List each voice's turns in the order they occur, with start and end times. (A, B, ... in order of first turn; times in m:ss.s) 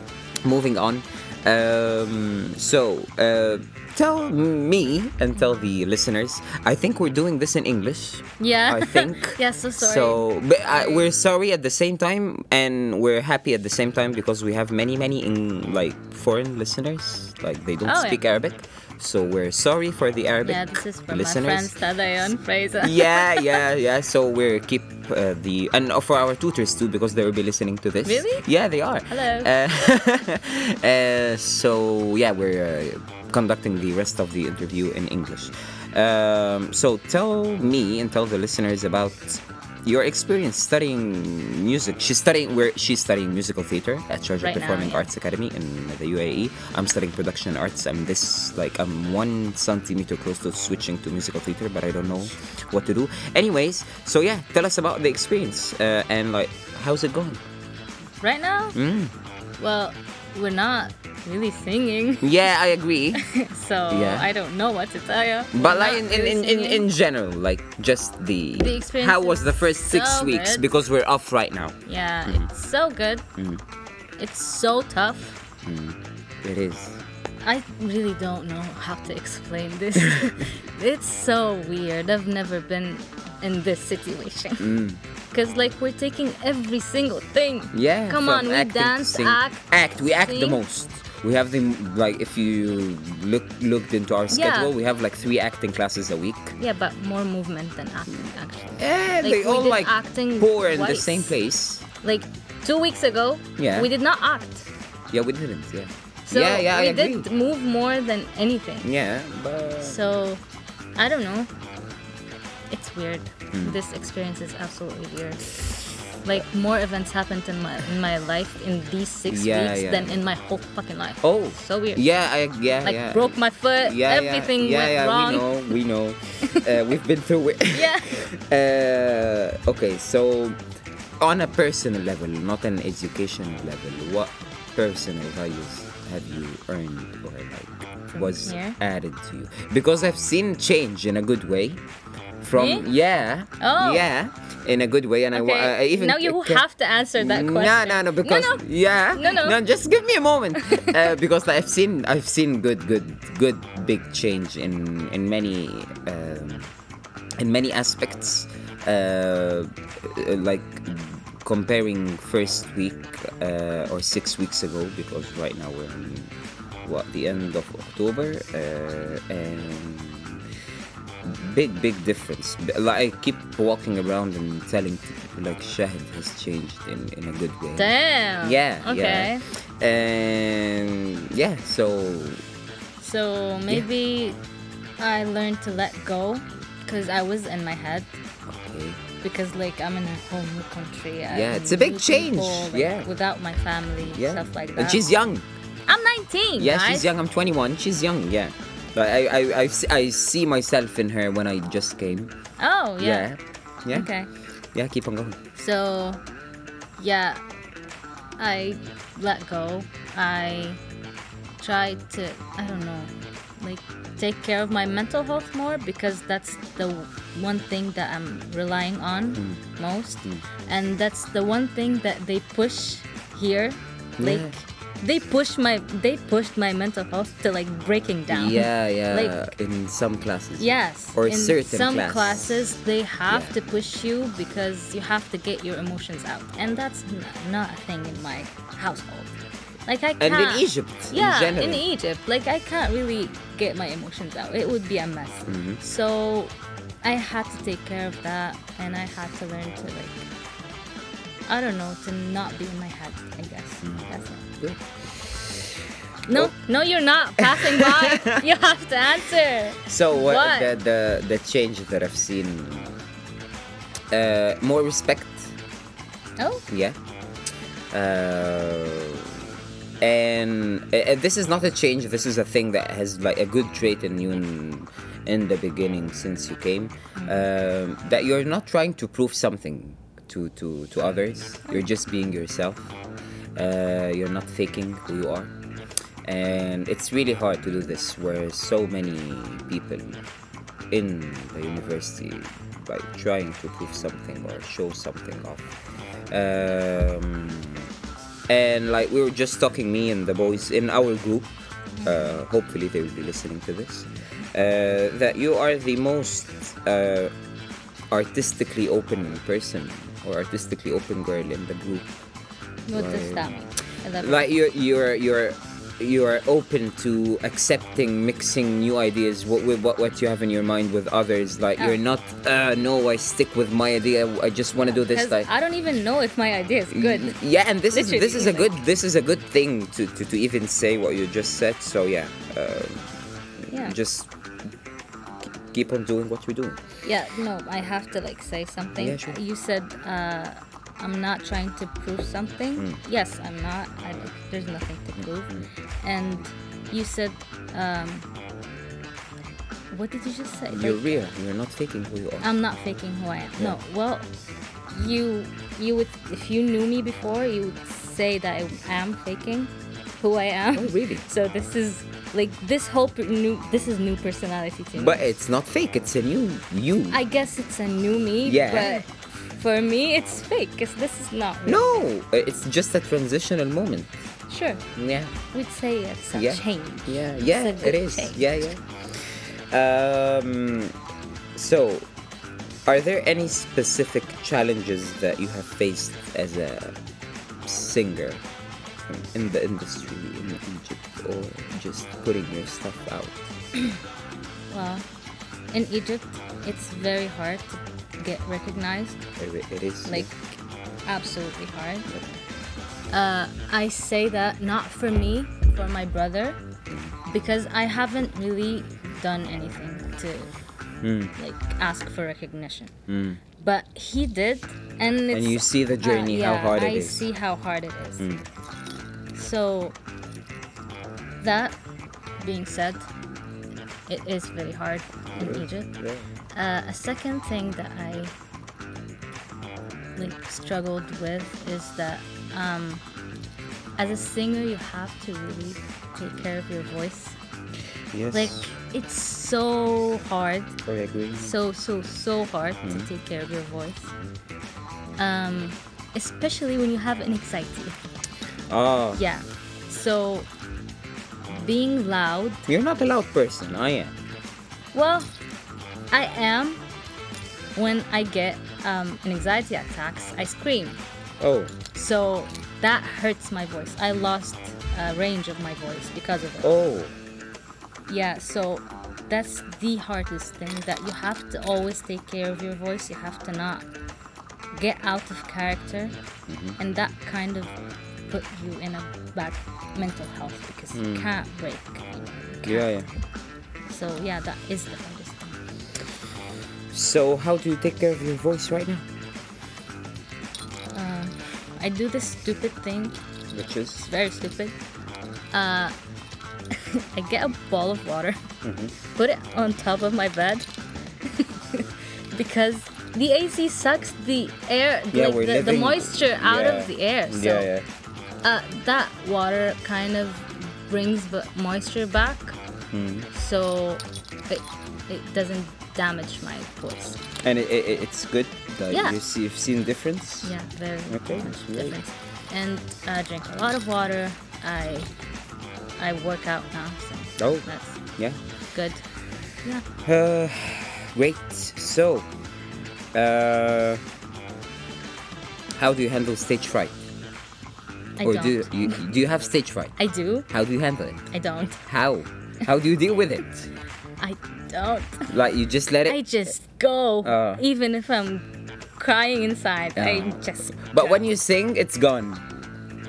0:00.4-0:21.8 A
0:08.4-0:11.0 B
0:17.8-0:18.2 B
0:20.4-0:23.6 B
0:22.8-0:57.4 A
0:28.0-0:28.4 B
0:29.1-0:29.5 B
0:44.4-0:45.1 B
0:58.2-0:58.8 B
0:58.7-0:59.1 A
0:59.6-1:02.5 B
1:02.2-1:03.3 A
1:03.1-1:06.9 B
1:03.9-1:04.3 A
1:05.5-1:12.5 A
1:08.6-1:10.6 B
1:11.8-1:13.2 B
1:13.4-1:13.6 A
1:14.2-1:15.4 B
1:15.6-1:17.0 A
1:17.4-1:24.8 B
1:20.0-1:20.4 A
1:24.6-1:25.0 A
1:25.3-1:30.6 B
1:27.7-1:36.6 A
1:34.3-1:34.7 B
1:36.6-1:41.3 B
1:38.8-1:41.8 A
1:42.0-1:44.7 B
1:43.6-1:43.9 A
1:45.1-1:47.3 A
1:46.3-1:48.9 B
1:48.8-1:50.0 A
1:49.8-1:50.4 B
1:51.0-1:51.5 B
1:52.7-2:02.0 B
1:53.5-1:53.8 A
1:59.3-2:00.2 A
2:01.2-2:10.6 A
2:02.8-2:05.7 B
2:07.7-2:08.1 B
2:11.2-2:21.8 A
2:18.1-2:18.8 B
2:22.4-2:26.6 A
2:22.6-2:22.8 B
2:23.6-2:24.1 B
2:25.3-2:29.6 B
2:27.2-2:36.7 A
2:30.6-2:31.0 B
2:37.4-2:46.3 A
2:46.8-2:50.4 A
2:51.2-3:02.4 A
2:57.8-2:59.4 B
3:03.0-3:04.4 B
3:05.0-3:08.1 B
3:08.5-3:09.0 A
3:09.2-3:15.1 B
3:11.3-3:13.1 A
3:14.0-3:15.4 A
3:15.9-3:17.1 B
3:16.6-3:22.3 A
3:22.6-3:23.3 B
3:23.0-3:24.1 A
3:23.9-3:24.3 B
3:24.7-3:25.4 A
3:25.6-3:26.2 B
3:27.0-3:27.4 B
3:28.4-3:30.8 B
3:31.6-3:49.4 B
3:39.4-3:39.6 A
3:44.2-3:44.5 A
3:48.3-3:52.7 A
3:50.6-4:10.3 B
4:00.2-4:01.8 A
4:05.5-4:05.8 A
4:11.5-4:14.4 B
4:13.8-4:14.1 A
4:14.6-4:16.5 A
4:16.3-4:20.7 B
4:17.4-4:18.4 A
4:19.8-4:23.0 A
4:24.1-4:25.5 A
4:26.4-4:26.6 B
4:26.7-4:27.0 A
4:27.9-4:29.5 A
4:30.0-4:42.9 A
4:37.2-4:37.4 B
4:43.6-4:45.5 A
4:46.2-4:50.2 A
4:50.9-4:55.7 A
4:56.3-4:57.9 A
4:58.5-5:01.5 A
5:02.0-5:02.4 B
5:02.0-5:07.3 A
5:08.1-5:12.1 A
5:12.9-5:14.5 B
5:12.9-5:13.5 A
5:14.2-5:25.5 A
5:24.9-5:27.4 B
5:26.9-5:34.3 A
5:27.9-5:28.8 B
5:33.7-5:34.0 B
5:35.7-5:36.8 A
5:37.0-5:48.2 B
5:39.0-5:39.4 A
5:45.2-5:45.7 A
5:49.9-5:51.3 B
5:50.7-5:52.5 A
5:52.4-5:54.3 B
5:54.9-6:05.3 B
6:00.7-6:01.2 A
6:05.0-6:07.2 A
6:07.1-6:12.0 B
6:08.4-6:09.0 A
6:11.6-6:14.1 A
6:14.5-6:14.8 B
6:14.9-6:15.3 A
6:15.5-6:18.4 B
6:16.3-6:21.0 A
6:21.5-6:22.1 A
6:22.8-6:27.0 A
6:27.6-6:28.4 A
6:29.1-6:33.5 A
6:34.7-6:35.0 B
6:35.7-6:39.2 B
6:39.4-6:40.3 A
6:41.0-6:42.1 B
6:43.1-6:46.6 B
6:46.9-6:47.1 A
6:47.2-6:50.5 B
6:51.0-6:51.3 A
6:51.4-6:52.9 B
6:53.1-6:53.4 A
6:53.6-6:58.3 B
6:55.3-6:57.3 A
6:58.2-6:58.4 A
6:59.3-7:00.0 B
7:01.4-7:01.8 B
7:02.4-7:03.1 B
7:04.1-7:05.9 B
7:05.4-7:06.2 A
7:06.5-7:08.3 B
7:10.2-7:13.0 B
7:14.0-7:17.4 B
7:18.1-7:18.7 A
7:18.3-7:20.8 B
7:20.8-7:21.6 A
7:21.4-7:24.1 B
7:22.8-7:23.1 A
7:25.2-7:28.0 B
7:28.7-7:29.2 A
7:29.2-7:30.5 B
7:31.5-7:32.6 B
7:32.7-7:34.2 A
7:34.9-7:35.3 B
7:36.1-7:36.8 B
7:37.8-7:41.0 B
7:41.4-7:41.7 A
7:41.9-7:46.7 B
7:46.6-7:47.1 A
7:48.1-7:53.8 B
7:54.7-7:56.1 B
7:56.5-7:56.8 A
7:56.8-7:57.7 B
7:58.3-8:03.0 B
8:00.9-8:01.3 A
8:02.6-8:03.1 A
8:03.9-8:05.6 B
8:06.9-8:09.0 A
8:10.9-8:13.2 B
8:13.5-8:14.1 A
8:14.1-8:14.7 B
8:15.5-8:15.9 B
8:16.7-8:18.4 B
8:18.6-8:18.9 A
8:19.1-8:20.7 B
8:21.2-8:27.7 B
8:25.1-8:27.8 A
8:28.4-8:32.6 B
8:32.9-8:33.3 A
8:33.3-8:37.2 B
8:37.4-8:40.5 A
8:38.9-8:39.2 B
8:40.4-8:45.1 B
8:41.1-8:42.0 A
8:46.0-8:48.0 B
8:47.4-8:47.7 A
8:48.7-8:49.0 B
8:50.0-8:52.3 A
8:53.1-8:54.0 A
8:55.8-8:57.0 A
8:58.2-8:59.0 B
8:58.2-9:00.0 A
9:00.0-9:00.4 B
9:00.5-9:01.2 A
9:01.3-9:01.8 B
9:01.9-9:03.7 A
9:04.2-9:05.3 B
9:05.3-9:06.2 A
9:06.0-9:08.4 B
9:07.2-9:07.6 A
9:09.0-9:11.2 B
9:10.0-9:12.4 A